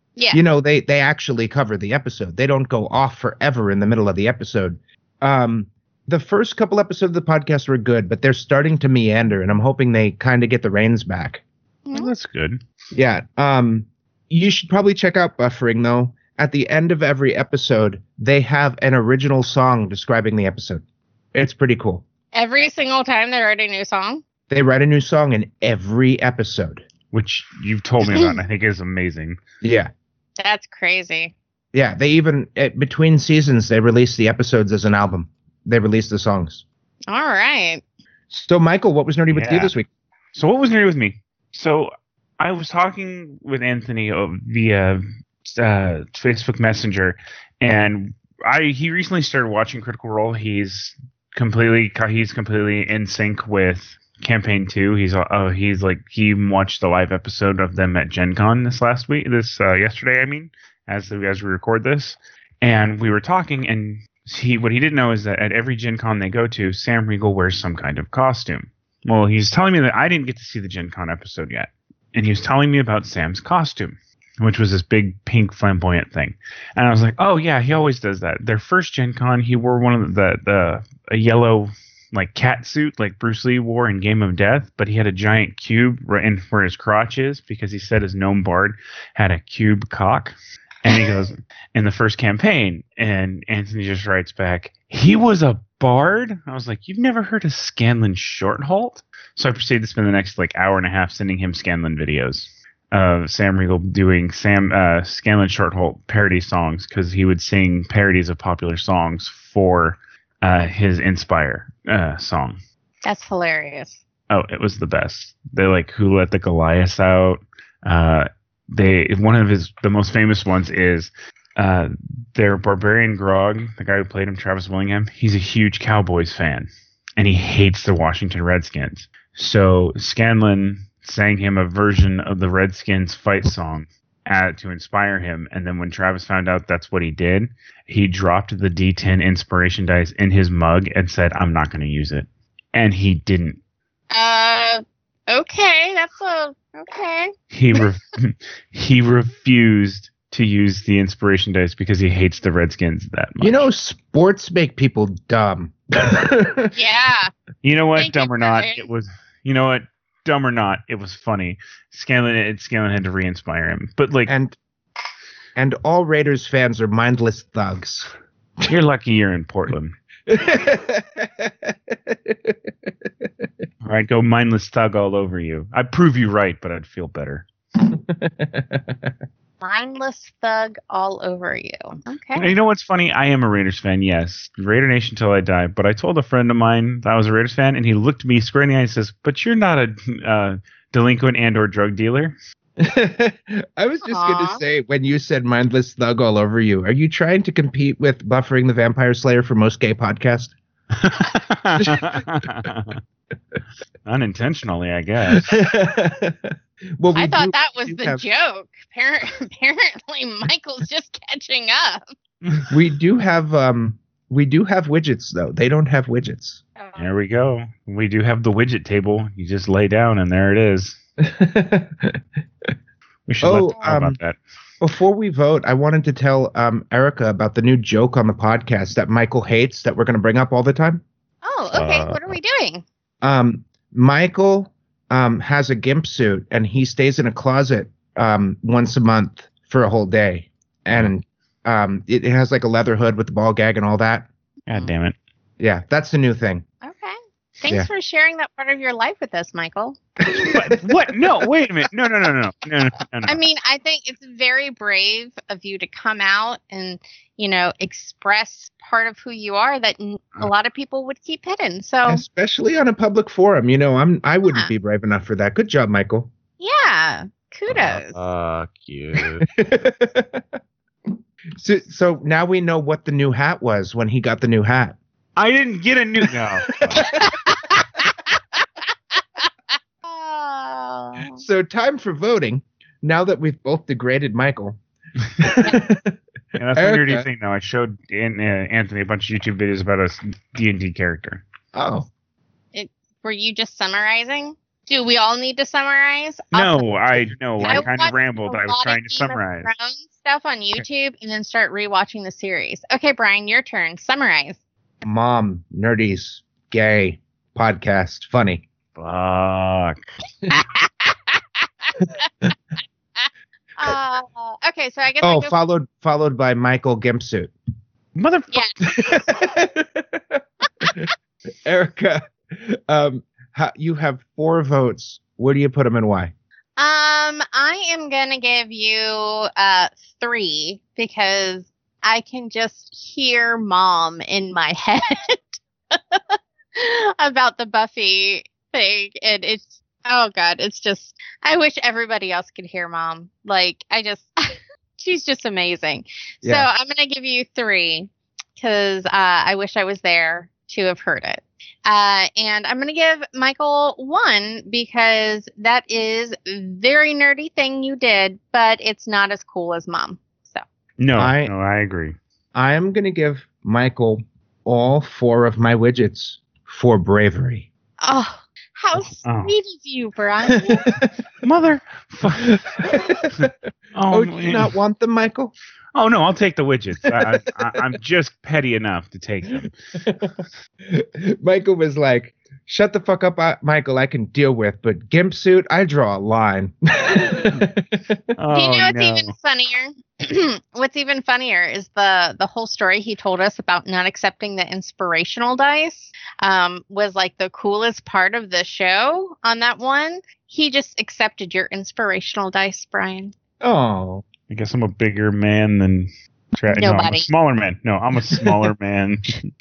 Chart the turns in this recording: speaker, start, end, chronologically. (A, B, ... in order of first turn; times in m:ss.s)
0:00.3-0:11.4 A
0:11.8-0:12.1 B
0:11.9-0:12.6 C
0:12.9-0:20.8 A
0:21.3-0:22.0 A
0:22.3-0:24.2 B
0:24.5-0:26.8 A
0:27.1-0:29.4 C
0:28.1-0:28.4 B
0:29.6-0:29.9 A
0:30.4-0:31.3 B
0:31.7-0:36.6 A
0:37.1-0:37.8 B
0:38.3-0:39.9 A
0:39.3-0:39.7 C
0:40.3-1:52.6 C
1:30.9-1:31.1 B
1:53.0-1:54.0 B
1:54.3-2:23.6 C
2:24.1-2:27.8 B
2:27.5-2:33.6 C
2:33.4-2:36.7 A
2:36.7-2:37.3 B
2:37.6-2:44.3 C
2:38.0-2:38.9 B
2:44.3-2:44.6 A
2:45.6-2:48.1 A
2:48.7-2:49.9 C
2:50.3-2:52.6 A
2:53.8-2:57.5 C
2:57.9-2:59.1 A
2:59.6-3:02.5 B
3:02.4-3:12.4 C
3:12.8-3:20.5 A
3:14.0-3:14.6 B
3:21.0-3:23.0 C
3:21.8-3:22.0 A
3:24.0-3:25.5 C
3:25.3-3:28.2 A
3:27.2-3:32.0 B
3:32.7-3:36.6 A
3:36.8-3:37.1 B
3:37.0-3:41.0 C
3:41.2-3:42.2 A
3:43.3-3:44.4 C
3:43.4-3:44.2 A
3:44.8-3:51.0 A
3:51.4-3:52.8 B
3:51.7-3:52.2 C
3:53.2-4:04.3 A
4:04.7-4:05.2 C
4:05.6-4:06.6 A
4:06.8-4:10.0 B
4:10.2-4:11.5 A
4:10.5-4:13.4 C
4:13.2-4:22.2 B
4:22.0-4:26.3 A
4:26.6-4:28.2 B
4:27.7-4:29.4 C
4:29.4-4:30.5 A
4:31.6-4:35.0 A
4:35.4-4:36.8 C
4:36.2-4:37.3 A
4:37.0-4:37.8 B
4:40.0-4:41.4 B
4:41.3-4:44.8 A
4:45.4-4:47.2 A
4:46.6-4:51.4 C
4:51.7-4:52.1 A
4:52.7-4:56.9 B
4:56.5-4:59.7 C
4:57.6-5:04.6 B
5:05.0-5:08.6 A
5:09.0-5:10.0 C
5:12.0-5:12.5 A
5:13.8-5:15.5 B
5:15.2-5:17.5 A
5:18.1-5:18.6 C
5:18.8-5:21.1 A
5:21.6-5:26.3 A
5:26.8-6:00.6 B
6:01.0-6:02.2 C
6:01.1-6:01.5 A
6:02.5-6:07.7 A
6:08.0-6:10.9 B
6:09.2-6:09.5 C
6:10.5-6:11.1 A
6:11.4-6:12.6 C
6:12.4-6:13.5 A
6:13.3-6:14.7 C
6:14.1-6:15.5 A
6:15.9-6:19.7 C
6:17.1-6:17.8 A
6:19.6-6:20.3 A
6:20.9-6:28.2 A
6:28.4-6:29.3 C
6:28.5-6:43.3 B
6:43.6-6:44.2 A
6:44.5-6:49.5 C
6:46.7-6:47.3 B